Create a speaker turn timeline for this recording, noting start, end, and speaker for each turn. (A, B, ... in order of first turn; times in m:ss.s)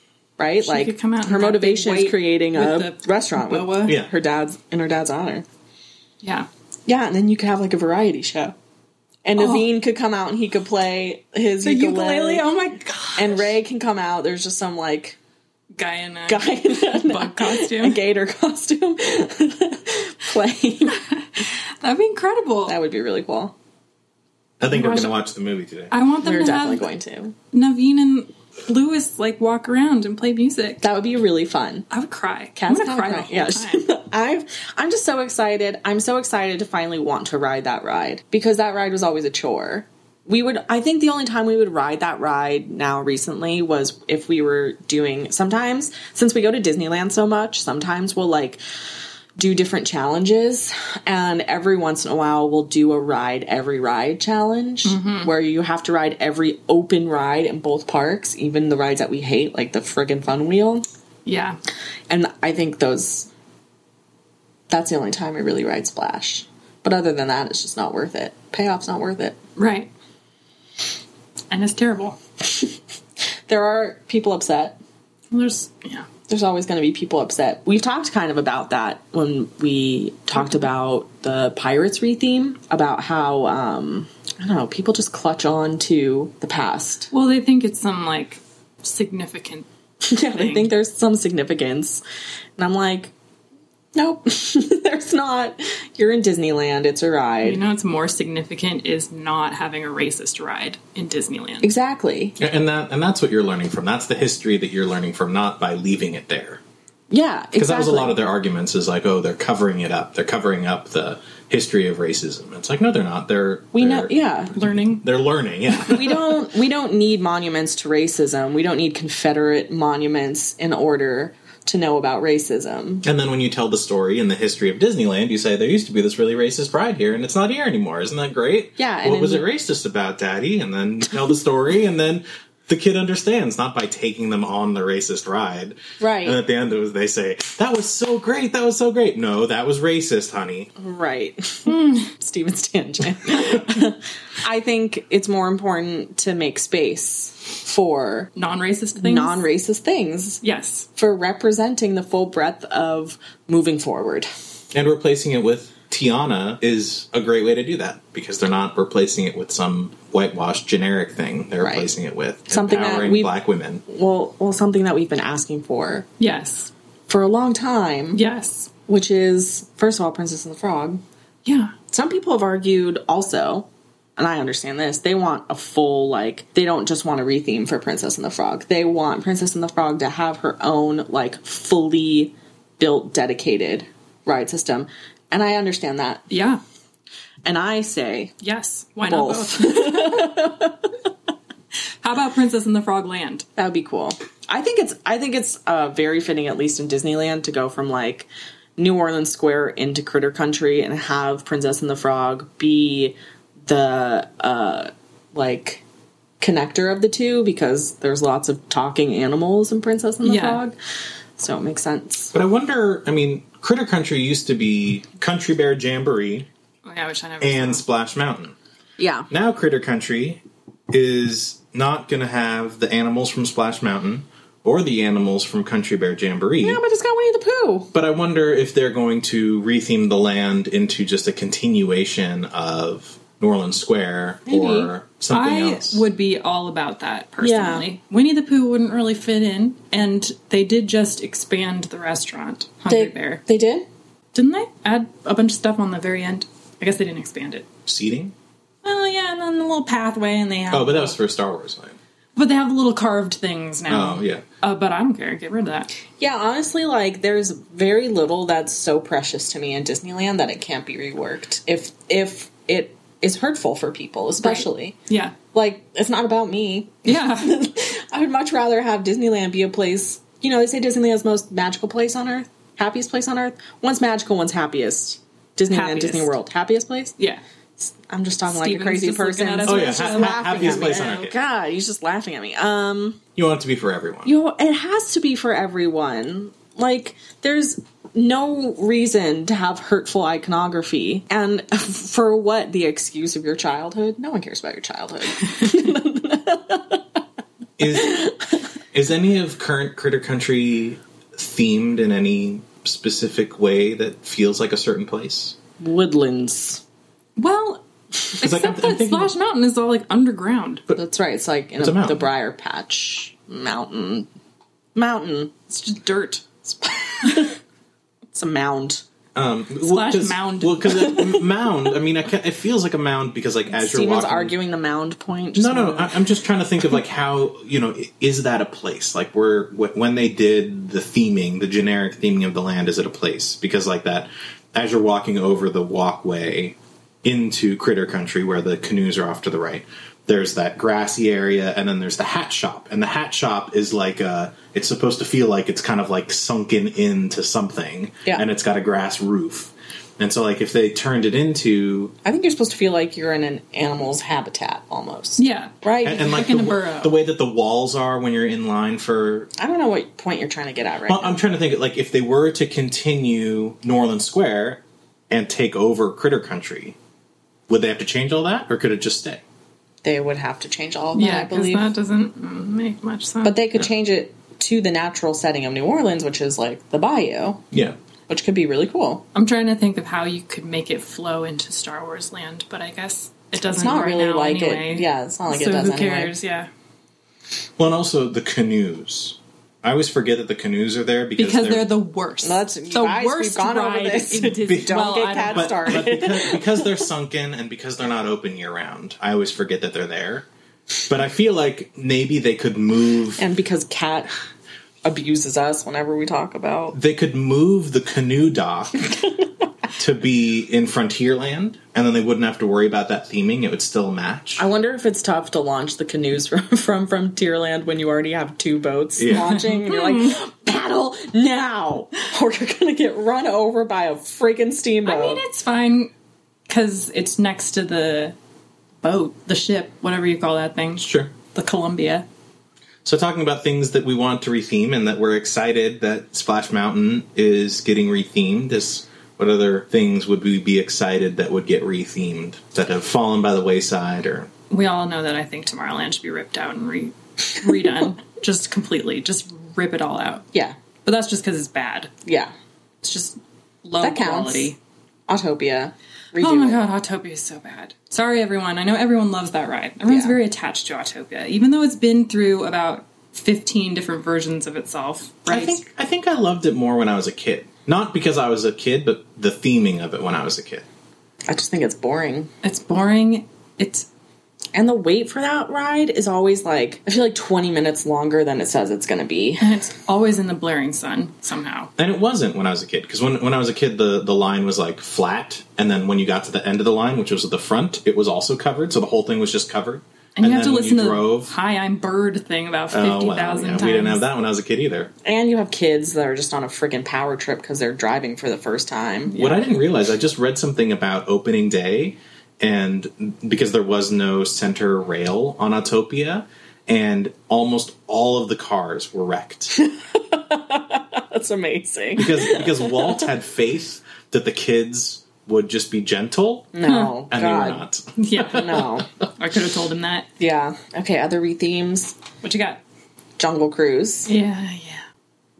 0:00.4-0:05.5 A
0:00.6-0:04.0 B
0:03.8-0:04.1 C
0:06.2-0:06.5 B
0:06.9-0:08.6 A
0:09.2-0:12.5 A
0:09.4-0:09.6 B
0:11.6-0:13.6 B
0:13.2-0:15.2 A
0:15.8-0:18.0 B
0:16.3-0:21.0 A
0:21.0-0:22.8 B
0:22.7-0:23.6 A
0:24.6-0:25.9 C
0:24.7-0:25.1 B
0:25.9-0:26.9 B
0:26.2-0:27.3 A
0:27.5-0:30.8 B
0:30.8-0:31.9 A
0:31.9-0:33.8 B
0:32.6-0:48.6 A
0:49.4-1:00.8 A
0:54.8-0:55.3 B
1:01.3-1:01.6 B
1:02.1-1:03.3 A
1:04.7-1:09.4 A
1:09.6-1:09.9 B
1:11.5-1:12.2 B
1:13.5-1:14.8 A
1:15.3-1:16.1 B
1:16.3-1:27.1 A
1:27.1-1:29.7 B
1:30.0-1:32.0 A
1:30.4-1:30.7 B
1:32.6-1:33.1 A
1:34.0-1:37.6 A
1:37.4-1:41.7 B
1:41.6-1:42.4 A
1:42.4-1:46.6 C
1:47.1-1:48.2 A
1:47.6-1:54.1 C
1:53.7-1:54.5 A
1:54.6-1:55.0 B
1:55.0-1:56.4 C
1:55.8-2:03.0 A
2:03.0-2:20.7 C
2:08.8-2:09.5 A
2:16.0-2:16.4 A
2:20.8-2:28.3 A
2:21.7-2:22.1 B
2:28.4-2:29.5 B
2:29.0-2:30.4 A
2:30.4-2:30.9 B
2:31.0-2:34.3 A
2:34.7-2:43.8 C
2:41.6-2:41.9 A
2:42.5-2:43.3 A
2:43.9-2:46.1 A
2:46.2-2:46.7 B
2:47.1-2:48.2 A
2:48.1-2:48.7 B
2:48.9-2:51.0 A
2:51.4-2:51.7 B
2:51.9-3:06.2 A
3:06.3-3:06.6 B
3:07.4-3:08.3 A
3:08.4-3:10.4 B
3:09.1-3:10.9 A
3:12.0-3:13.5 B
3:13.6-3:25.8 A
3:26.4-3:30.8 A
3:30.2-3:30.6 B
3:31.4-3:32.3 A
3:32.3-3:36.5 C
3:36.8-3:37.8 B
3:37.4-3:38.6 C
3:39.0-3:39.3 A
3:39.3-3:46.8 C
3:46.6-3:47.9 A
3:47.9-3:56.0 C
3:54.5-3:54.9 A
3:55.3-4:03.4 B
3:57.4-3:57.9 A
4:02.9-4:03.9 A
4:04.3-4:07.7 B
4:07.9-4:08.3 C
4:08.8-4:11.2 B
4:10.7-4:12.0 C
4:12.4-4:15.9 B
4:13.9-4:14.4 C
4:16.2-4:25.0 A
4:24.4-4:25.4 B
4:25.5-4:37.1 A
4:27.1-4:27.5 B
4:35.7-4:36.3 B
4:37.8-4:43.2 A
4:38.5-4:41.2 B
4:39.6-4:41.4 C
4:43.4-4:44.3 C
4:44.2-4:57.0 A
4:57.8-4:58.3 C
4:57.9-4:58.5 A
4:58.9-5:05.6 C
5:05.8-5:06.8 A
5:07.4-5:10.8 B
5:08.4-5:09.3 C
5:10.9-5:14.3 A
5:11.8-5:12.3 C
5:15.0-5:15.5 A
5:15.7-5:16.5 B
5:16.7-5:17.6 A
5:18.3-5:19.0 A
5:19.4-5:24.6 C
5:19.8-5:21.4 B
5:23.7-5:26.2 A
5:25.5-5:52.1 C
5:52.2-5:56.4 A
5:55.4-5:57.1 B
5:56.0-5:59.5 C
5:59.6-6:01.4 A
6:01.1-6:07.0 C
6:07.7-6:09.4 C
6:10.0-6:11.9 A
6:11.2-6:13.6 B
6:13.4-6:17.6 A
6:17.7-6:18.0 C
6:18.3-6:19.2 A
6:19.3-6:26.7 B
6:23.7-6:26.3 A
6:27.8-6:31.9 C
6:31.4-6:36.1 B
6:32.4-6:37.0 A
6:34.6-6:35.0 C
6:35.5-6:40.5 C
6:41.1-6:43.4 C
6:43.4-6:44.3 A
6:45.0-6:47.0 A
6:46.9-6:49.1 C
6:49.2-6:49.4 A
6:50.0-6:54.6 C
6:54.6-7:05.4 A
6:59.2-6:59.6 C
6:59.3-7:00.4 B
7:05.0-7:06.1 B
7:06.7-7:08.4 B
7:09.0-7:12.3 B
7:11.0-7:11.3 C
7:13.0-7:24.5 C
7:24.7-7:30.5 B
7:31.0-7:32.1 B
7:32.3-7:32.5 A
7:33.0-7:34.8 B
7:34.0-7:34.7 A
7:35.3-7:36.8 A
7:36.4-7:45.8 B
7:40.0-7:40.4 A
7:45.5-7:50.8 C
7:51.5-7:52.5 A
7:52.6-7:54.1 B
7:54.8-7:59.8 A
7:59.6-8:01.9 B
8:02.0-8:11.5 C
8:10.4-8:14.2 B
8:12.9-8:15.1 C
8:15.2-8:19.4 A
8:19.3-8:19.7 B
8:19.4-8:29.7 C
8:29.7-8:33.3 A
8:32.2-8:38.8 C
8:36.7-8:37.8 A
8:36.9-8:37.2 B
8:38.2-8:40.3 B
8:38.4-8:39.1 A
8:40.4-8:42.2 A
8:42.4-8:42.8 B
8:43.4-8:44.3 A
8:44.3-8:45.0 B